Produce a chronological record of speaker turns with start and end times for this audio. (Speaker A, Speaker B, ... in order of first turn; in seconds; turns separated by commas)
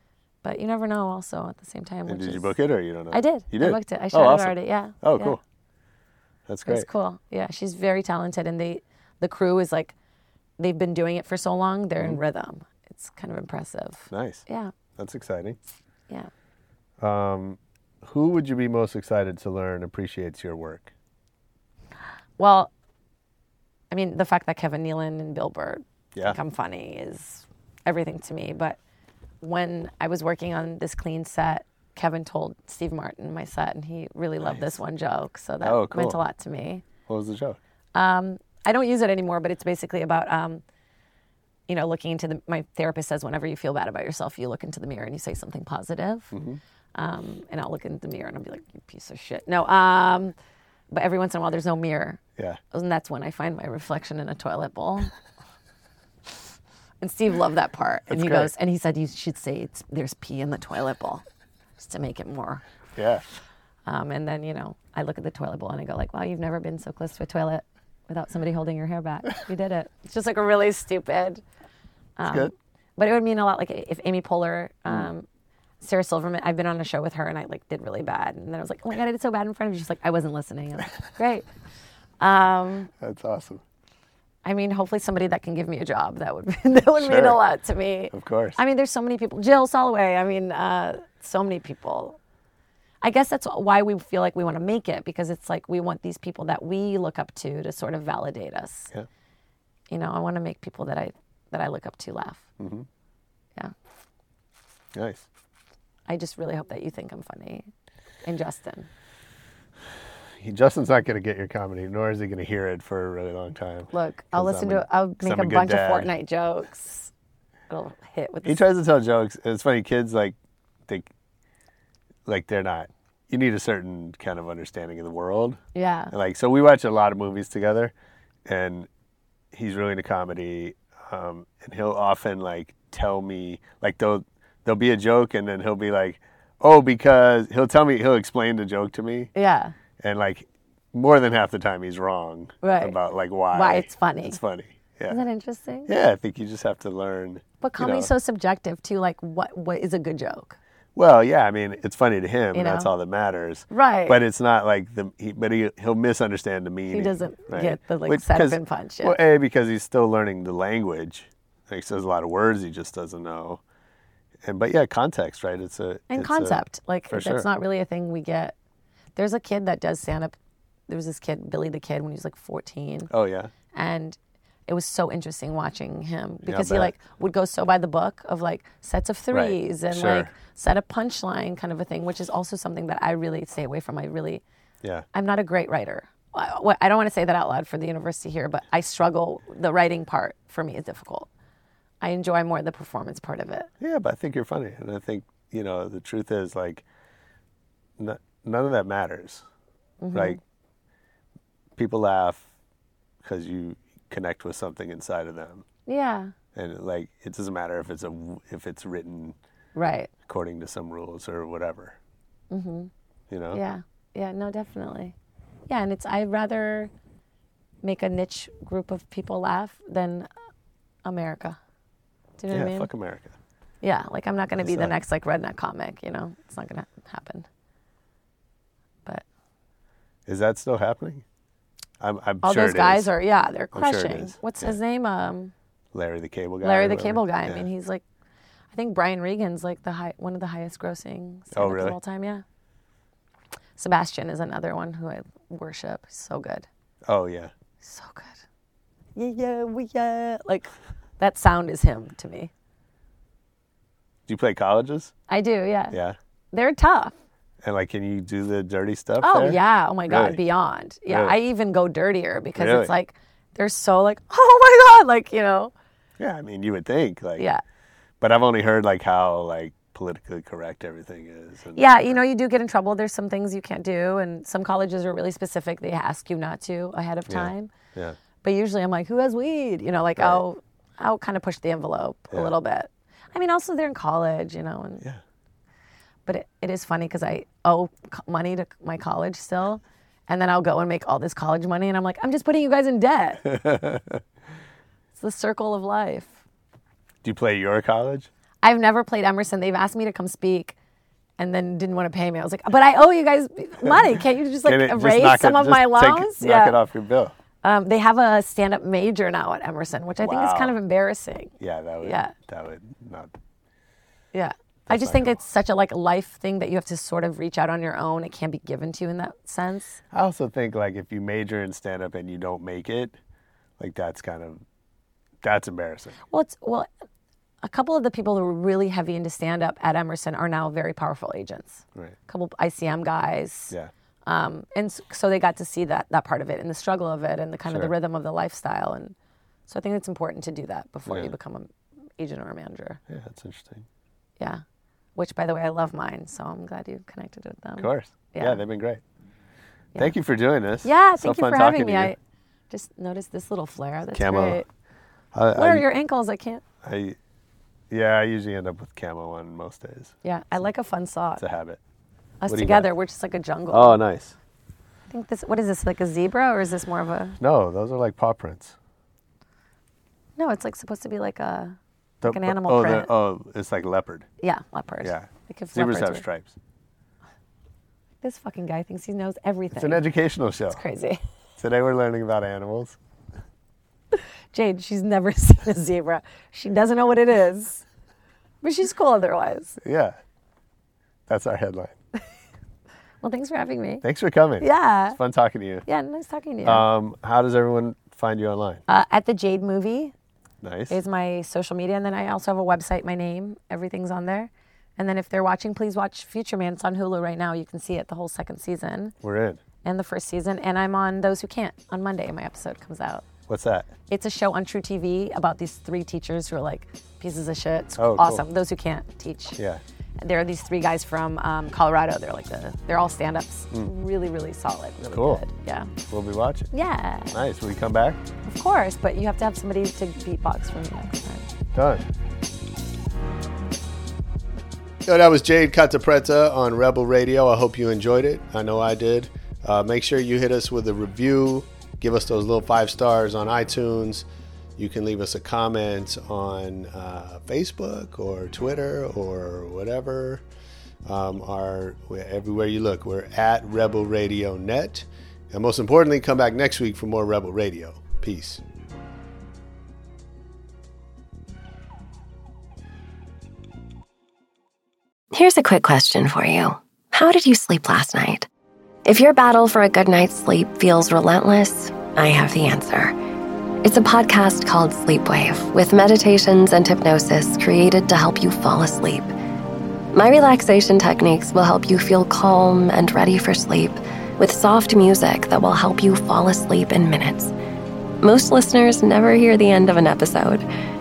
Speaker A: 0.4-2.6, Speaker B: 2.1-5.4, Speaker A: 3.1-5.4, Speaker B: 6.5-6.9, Speaker A: 6.7-9.9, Speaker A: 10.6-14.7, Speaker B: 14.1-14.4, Speaker B: 15.0-15.6, Speaker B: 17.0-20.9, Speaker A: 22.4-22.7, Speaker A: 23.9-28.8, Speaker A: 29.4-36.8, Speaker B: 34.4-34.8, Speaker B: 35.6-36.2, Speaker B: 37.1-37.6, Speaker A: 38.0-40.6, Speaker A: 41.7-46.4, Speaker B: 46.3-46.6, Speaker A: 47.0-50.3, Speaker A: 50.9-52.2, Speaker A: 52.7-55.1, Speaker A: 57.0-61.2, Speaker B: 58.1-58.5, Speaker A: 61.8-62.6, Speaker B: 63.0-63.2, Speaker A: 63.9-71.4, Speaker A: 72.2-75.2, Speaker B: 72.2-72.5, Speaker A: 75.8-81.5, Speaker A: 82.2-82.9, Speaker B: 83.0-83.6, Speaker A: 84.4-92.2, Speaker B: 87.0-87.4, Speaker B: 88.1-88.6, Speaker A: 93.0-98.9, Speaker A: 99.9-102.5, Speaker B: 102.6-102.9, Speaker B: 104.9-105.3, Speaker A: 106.1-107.7, Speaker A: 108.2-108.9, Speaker B: 110.4-116.1, Speaker A: 113.9-117.1, Speaker A: 117.7-118.6, Speaker B: 118.4-120.4, Speaker B: 122.3-125.6, Speaker A: 125.8-126.1, Speaker B: 126.1-127.9, Speaker B: 128.4-128.9, Speaker B: 129.5-139.3, Speaker A: 139.3-139.8, Speaker B: 140.0-145.2, Speaker A: 142.6-143.0, Speaker A: 143.5-144.4, Speaker A: 145.1-145.9, Speaker B: 145.9-148.1, Speaker A: 147.6-150.6, Speaker B: 151.0-163.6, Speaker A: 152.5-152.9, Speaker A: 153.7-154.2, Speaker A: 156.9-159.2, Speaker B: 164.4-167.5, Speaker A: 166.1-168.6, Speaker A: 169.2-170.3, Speaker A: 170.9-173.1, Speaker B: 173.1-173.5, Speaker A: 173.7-184.4, Speaker B: 176.4-176.9, Speaker B: 179.3-180.3, Speaker A: 185.1-191.3, Speaker A: 192.0-193.7, Speaker B: 193.8-196.8, Speaker B: 198.0-199.4, Speaker A: 200.0-200.4, Speaker B: 200.1-200.4, Speaker B: 201.8-202.5, Speaker B: 203.2-205.7, Speaker A: 205.9-206.3, Speaker B: 206.5-209.4, Speaker A: 209.8-210.1, Speaker B: 210.3-212.0, Speaker A: 212.5-212.9, Speaker B: 213.3-213.6, Speaker A: 213.5-215.2, Speaker A: 215.7-216.9, Speaker A: 217.8-220.3, Speaker A: 221.1-221.6, Speaker A: 222.4-222.9, Speaker B: 222.5-223.4, Speaker A: 223.8-227.5, Speaker B: 224.6-224.9, Speaker B: 230.3-231.2, Speaker B: 232.0-233.1, Speaker A: 232.4-235.5, Speaker B: 233.7-234.8, Speaker B: 235.9-237.7, Speaker A: 236.6-238.0, Speaker A: 238.7-242.4, Speaker B: 241.5-242.0, Speaker A: 243.8-246.7, Speaker B: 247.1-247.5, Speaker A: 247.8-248.4, Speaker A: 249.2-252.5, Speaker B: 254.3-255.1, Speaker A: 255.3-256.0, Speaker B: 255.9-256.2, Speaker A: 256.5-257.1, Speaker B: 257.6-260.4, Speaker A: 259.2-265.7, Speaker B: 261.1-261.4, Speaker B: 262.6-262.9, Speaker B: 266.2-267.5, Speaker B: 268.2-272.2, Speaker A: 271.8-277.7, Speaker B: 277.3-278.2, Speaker A: 278.4-285.0, Speaker B: 280.2-280.4, Speaker A: 286.3-293.5, Speaker B: 293.4-294.2, Speaker A: 295.2-296.4, Speaker B: 297.2-298.3, Speaker A: 298.6-300.8, Speaker A: 301.4-306.8, Speaker B: 303.8-307.3, Speaker A: 307.6-312.3, Speaker B: 310.2-310.8, Speaker B: 311.6-313.3, Speaker A: 314.3-320.0, Speaker B: 314.9-315.4, Speaker B: 320.1-323.2, Speaker B: 323.8-324.6, Speaker B: 325.4-326.2, Speaker A: 326.3-326.9, Speaker A: 327.6-333.7, Speaker A: 334.3-339.1, Speaker B: 337.7-337.9, Speaker A: 339.7-343.0, Speaker B: 341.1-341.3, Speaker B: 343.1-343.9, Speaker A: 345.2-348.6, Speaker B: 347.8-349.0, Speaker B: 349.9-352.2, Speaker A: 350.8-352.2, Speaker A: 352.7-354.7, Speaker B: 354.1-354.6, Speaker B: 355.3-355.9, Speaker A: 355.6-356.6, Speaker B: 356.8-357.2, Speaker B: 357.9-360.1, Speaker A: 360.2-361.4, Speaker B: 361.4-361.8, Speaker A: 362.4-364.0, Speaker B: 362.5-362.9, Speaker B: 363.7-364.4, Speaker A: 365.1-367.4, Speaker B: 367.4-368.8, Speaker A: 370.4-373.1, Speaker B: 372.2-374.3, Speaker A: 374.4-376.2, Speaker B: 375.0-376.6, Speaker A: 378.2-380.0, Speaker B: 379.7-380.8, Speaker A: 380.7-381.2, Speaker B: 381.6-383.0, Speaker A: 384.1-387.8, Speaker A: 388.6-389.8, Speaker B: 389.8-390.2, Speaker B: 391.3-392.0, Speaker A: 393.2-394.0, Speaker B: 394.0-395.9, Speaker A: 394.6-395.2, Speaker A: 395.9-396.9, Speaker B: 396.6-398.8, Speaker A: 398.9-400.1, Speaker B: 400.6-401.0, Speaker A: 400.9-409.1, Speaker B: 409.2-409.6, Speaker A: 409.8-413.2, Speaker B: 413.5-413.9, Speaker A: 414.1-419.6, Speaker B: 418.0-418.4, Speaker B: 419.6-419.8, Speaker A: 420.2-425.9, Speaker B: 425.1-425.4, Speaker B: 426.1-426.7, Speaker A: 426.7-427.4, Speaker B: 427.3-428.2, Speaker A: 428.4-431.5, Speaker B: 431.8-432.1, Speaker B: 435.1-444.3, Speaker B: 444.8-450.4, Speaker B: 451.1-458.6, Speaker C: 465.3-468.5, Speaker C: 469.1-473.2, Speaker C: 473.8-479.3, Speaker C: 480.1-487.6, Speaker C: 488.2-490.7